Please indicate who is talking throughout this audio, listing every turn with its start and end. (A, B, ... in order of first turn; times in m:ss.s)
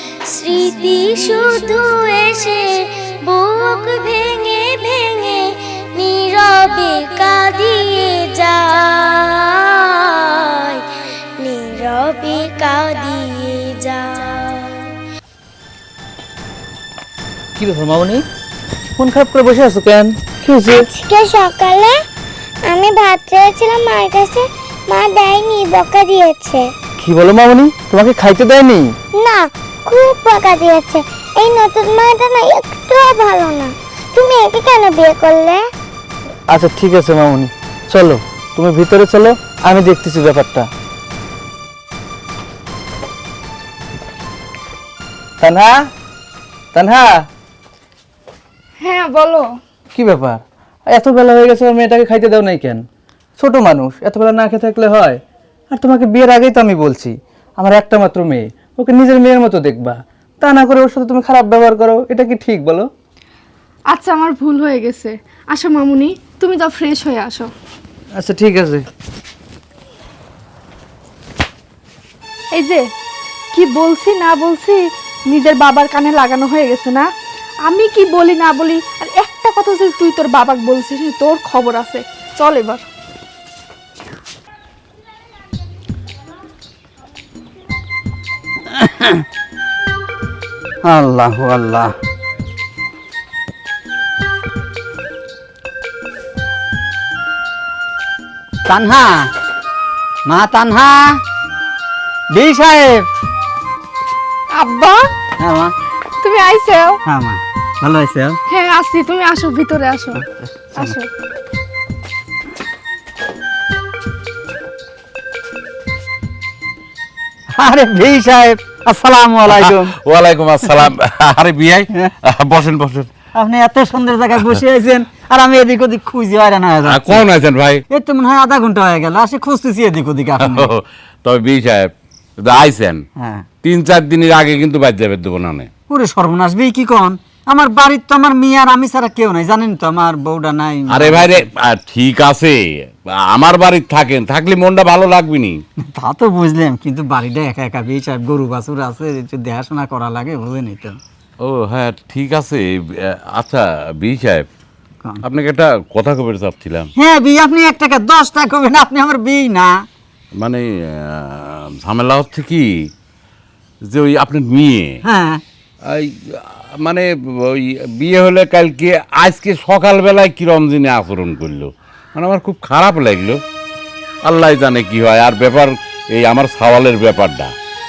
0:00.3-0:09.6 A
0:11.4-0:14.8 A
0:17.6-0:18.2 B
0:19.0-0:20.9 B
0:20.9-0:21.8 C
0:21.4-0:21.9 A
0:22.8-0:24.0 C
0:22.9-0:24.2 A
0:25.0-0:25.5 C
0:25.0-0:26.6 A
0:27.0-0:29.0 B
0:30.1-0:30.9 A
0:31.5-0:31.7 C
0:31.6-0:33.6 A
0:34.2-0:34.7 C
0:34.5-0:35.5 A
0:36.5-0:40.7 B
0:45.4-0:45.8 B
0:46.7-0:47.1 B
0:48.8-0:49.5 C
0:49.9-0:52.8 B
0:53.4-0:55.2 B
0:55.7-1:02.9 B
1:03.9-1:07.5 C
1:08.2-1:08.8 B
1:12.6-1:12.8 C
1:13.5-1:17.1 C
1:17.7-1:22.8 C
1:28.7-1:29.2 D
1:30.8-1:31.9 D
1:38.6-1:39.3 D
1:40.3-1:41.2 D
1:42.3-1:43.0 D
1:44.6-1:45.0 C
1:45.4-1:45.7 D
1:46.2-1:47.0 C
1:47.1-1:48.4 D
1:48.5-1:50.2 C
1:50.4-1:51.0 D
1:50.8-1:51.1 C
1:57.5-1:59.9 D
1:59.5-2:03.1 E
2:03.3-2:07.2 D
2:06.9-2:07.8 E
2:07.9-2:10.7 D
2:10.4-2:13.0 E
2:13.2-2:13.4 D
2:13.6-2:15.7 E
2:15.9-2:21.5 D
2:20.9-2:25.6 E
2:25.8-2:31.0 D
2:31.4-2:34.4 E
2:35.2-2:36.9 E
2:37.0-2:39.7 D
2:40.4-2:42.6 E
2:43.9-2:45.0 E
2:45.0-2:45.4 D
2:45.9-2:53.4 E
2:54.3-2:57.5 E